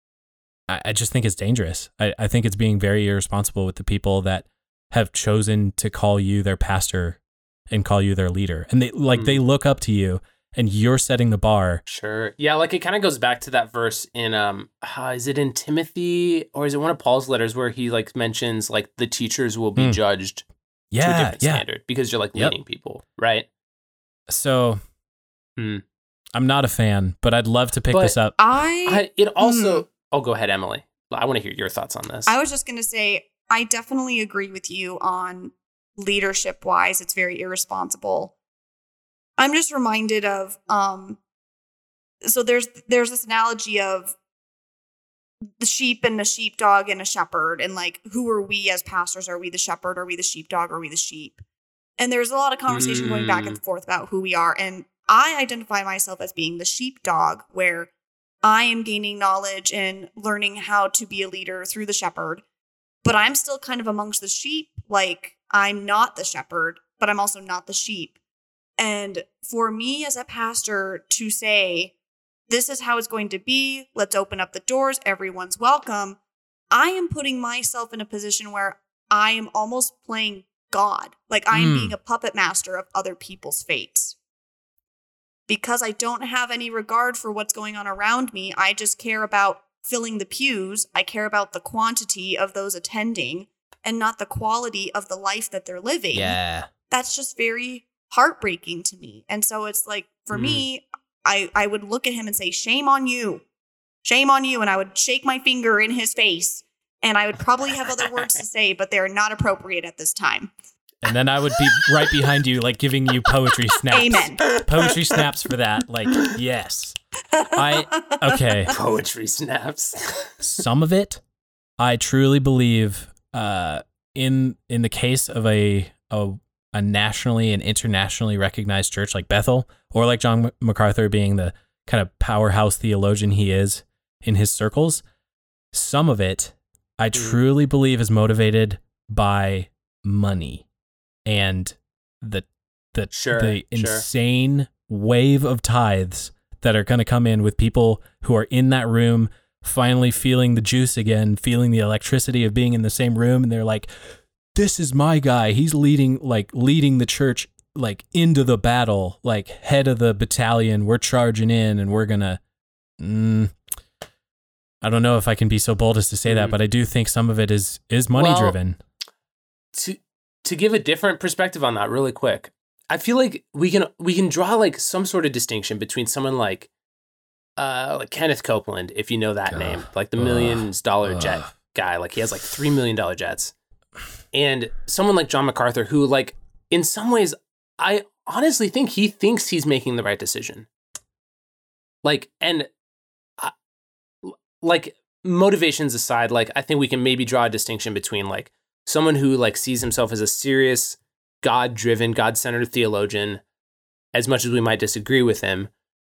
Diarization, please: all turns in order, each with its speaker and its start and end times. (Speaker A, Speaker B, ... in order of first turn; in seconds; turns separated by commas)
Speaker A: 0.7-7.2, Speaker A: 7.7-11.8, Speaker B: 9.1-9.4, Speaker B: 11.9-20.4, Speaker A: 20.9-21.6, Speaker B: 21.0-23.5, Speaker A: 24.3-24.8, Speaker B: 25.6-25.8, Speaker A: 26.4-28.4, Speaker B: 27.9-28.2, Speaker C: 28.4-29.9, Speaker B: 28.9-32.3, Speaker C: 32.3-38.3, Speaker C: 39.4-41.2, Speaker C: 42.2-44.2, Speaker C: 45.6-51.4, Speaker C: 52.0-57.9, Speaker B: 52.7-53.6, Speaker C: 58.4-62.4, Speaker C: 63.0-68.2, Speaker C: 68.8-71.9, Speaker C: 72.5-76.2, Speaker C: 76.7-84.2, Speaker A: 81.5-82.0, Speaker C: 85.5-96.4, Speaker A: 96.1-96.7, Speaker C: 96.9-103.4, Speaker B: 100.3-100.7, Speaker C: 104.0-110.5, Speaker B: 107.9-108.3, Speaker A: 111.0-117.0, Speaker C: 113.9-114.5, Speaker B: 114.5-115.3, Speaker C: 117.3-118.7, Speaker A: 117.5-118.7, Speaker B: 118.7-120.6, Speaker A: 120.4-121.2, Speaker A: 121.8-135.0, Speaker A: 135.7-140.7, Speaker B: 137.2-137.4, Speaker A: 141.3-162.4, Speaker B: 143.1-144.1, Speaker A: 163.0-163.5, Speaker A: 164.8-168.8, Speaker B: 166.3-166.6, Speaker B: 168.2-168.6, Speaker B: 169.7-176.7, Speaker B: 177.6-183.5, Speaker A: 179.5-181.5, Speaker B: 184.3-190.7, Speaker B: 192.0-192.7, Speaker B: 194.2-203.4, Speaker B: 204.1-205.7